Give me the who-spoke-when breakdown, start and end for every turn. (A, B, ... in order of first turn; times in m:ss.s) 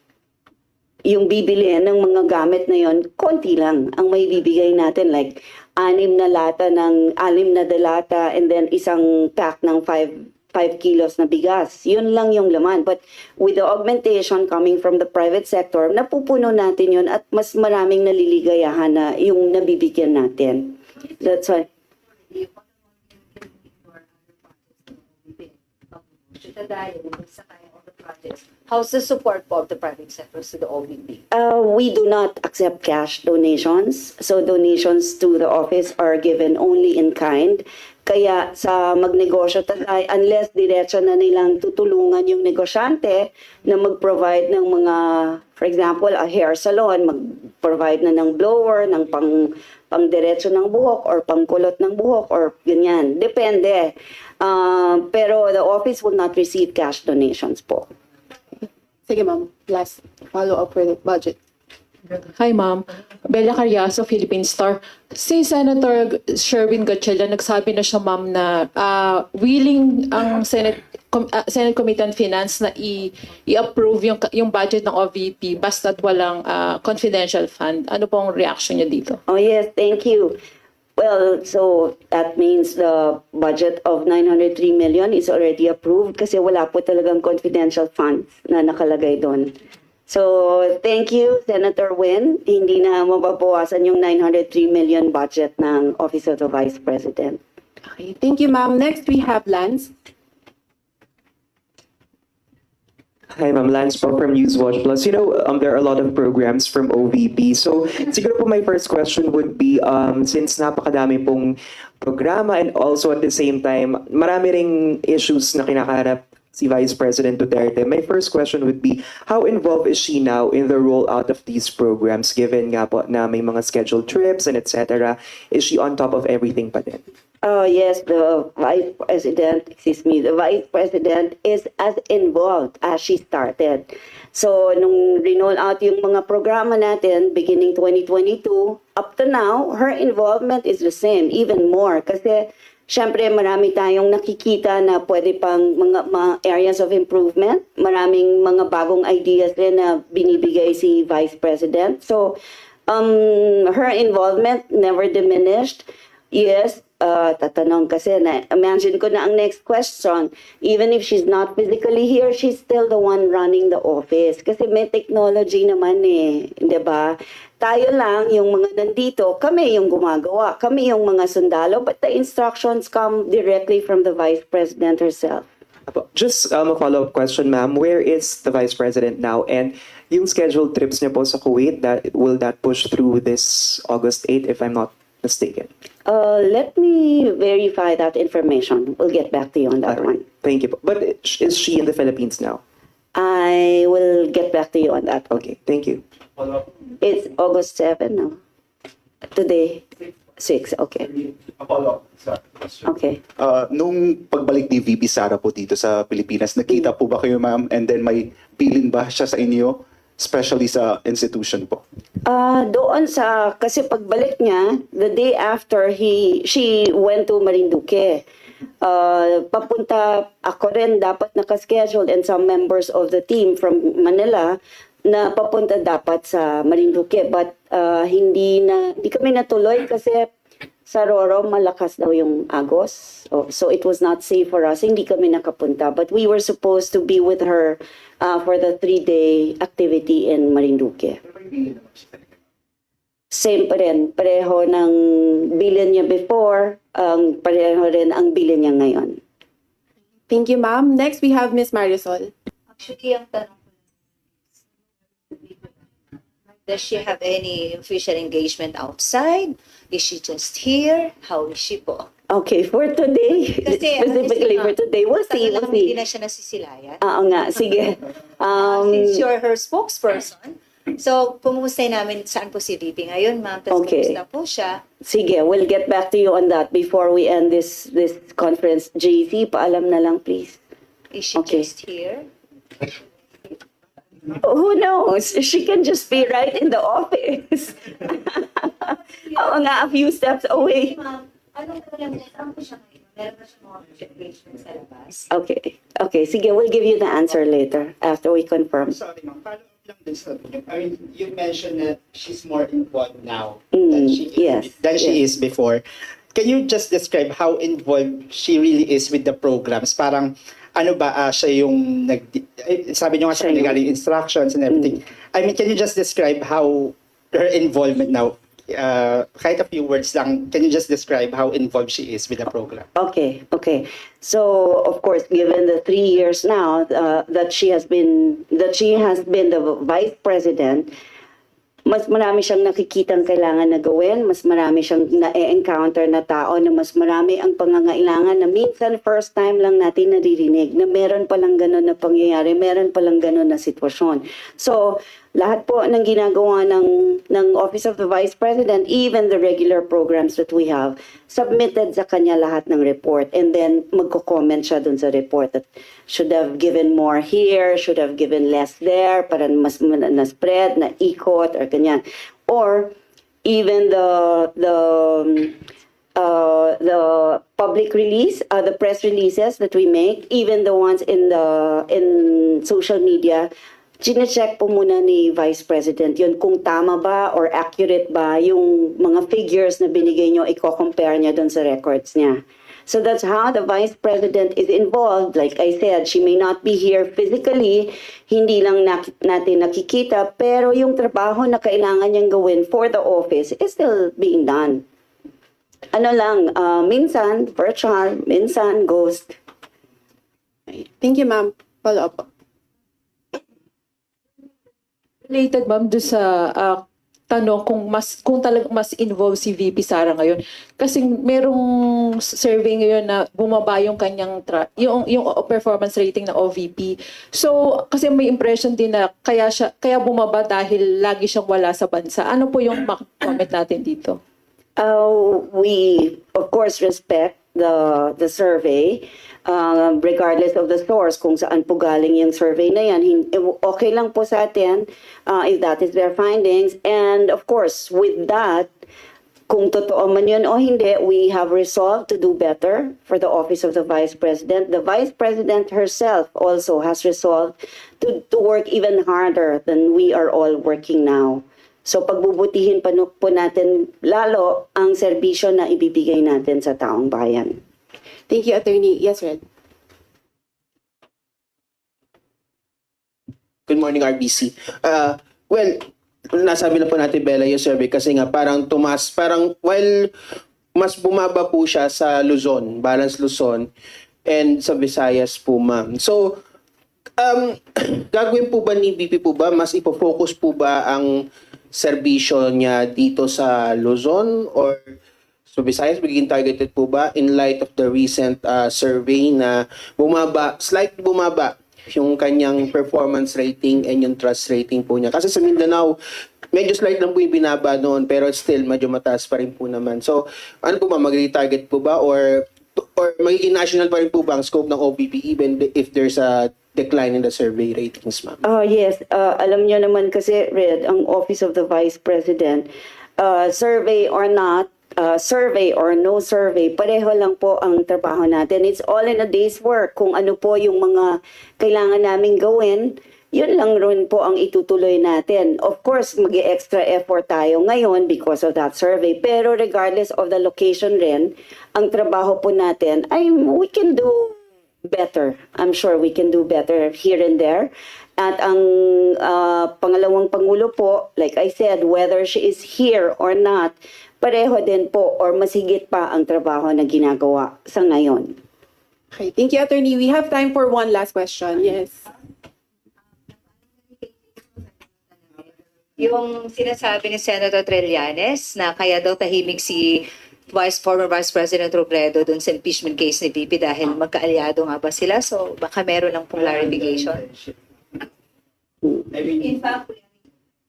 0:01.0-0:21.7 A
0:22.3-0:31.2 B
0:31.3-0:57.9 A
0:59.1-1:01.4 C
1:02.4-1:19.2 D
1:19.3-1:20.4 A
1:21.0-1:29.6 A
1:30.1-1:37.4 A
1:37.9-1:39.9 C
1:43.4-2:07.0 E
2:07.4-2:55.5 A
2:55.9-3:05.7 E
3:06.1-3:10.2 A
3:09.9-3:12.6 E
3:13.2-3:15.4 A
3:15.3-3:16.0 E
3:17.0-3:18.4 A
3:19.3-3:19.9 A
3:20.4-3:21.1 A
3:21.6-3:22.7 F
3:22.8-3:23.2 A
3:23.4-3:31.8 G
3:32.3-3:38.2 A
3:38.8-3:50.3 A
3:50.9-4:01.2 A
4:03.3-4:09.2 A
4:10.3-4:12.3 C
4:12.7-4:13.6 B
4:15.3-4:15.6 B
4:16.7-4:22.1 B
4:22.3-4:26.0 A
4:23.6-4:24.8 B
4:25.3-4:27.0 B
4:27.0-4:29.2 A
4:28.5-4:34.8 B
4:33.7-4:34.2 A
4:35.0-4:40.6 A
4:41.1-4:42.3 B
4:41.4-4:41.7 A
4:44.4-4:51.0 A
4:50.6-4:55.3 B
4:55.3-4:59.0 A
4:58.9-5:05.8 F
5:03.7-5:05.2 A
5:06.3-5:22.9 F
5:13.3-5:13.8 A
5:23.0-5:30.9 A
5:31.9-6:05.6 A
6:06.2-6:13.5 A
6:14.0-6:34.8 A
6:35.9-6:39.4 A
6:40.7-6:42.3 C
6:45.3-7:04.2 D
7:04.8-7:18.7 A
7:19.5-7:37.6 A
7:38.3-7:39.4 C
7:43.7-7:50.1 H
7:50.8-7:53.7 H
7:54.2-7:56.4 H
7:57.2-8:01.2 H
8:01.7-8:05.0 H
8:05.5-8:16.0 H
8:16.5-8:28.4 H
8:28.4-9:08.4 A
9:09.1-9:12.0 C
9:13.9-9:14.6 B
9:16.0-9:27.2 B
9:26.3-9:27.6 F
9:29.1-9:29.6 F
9:29.4-9:30.0 B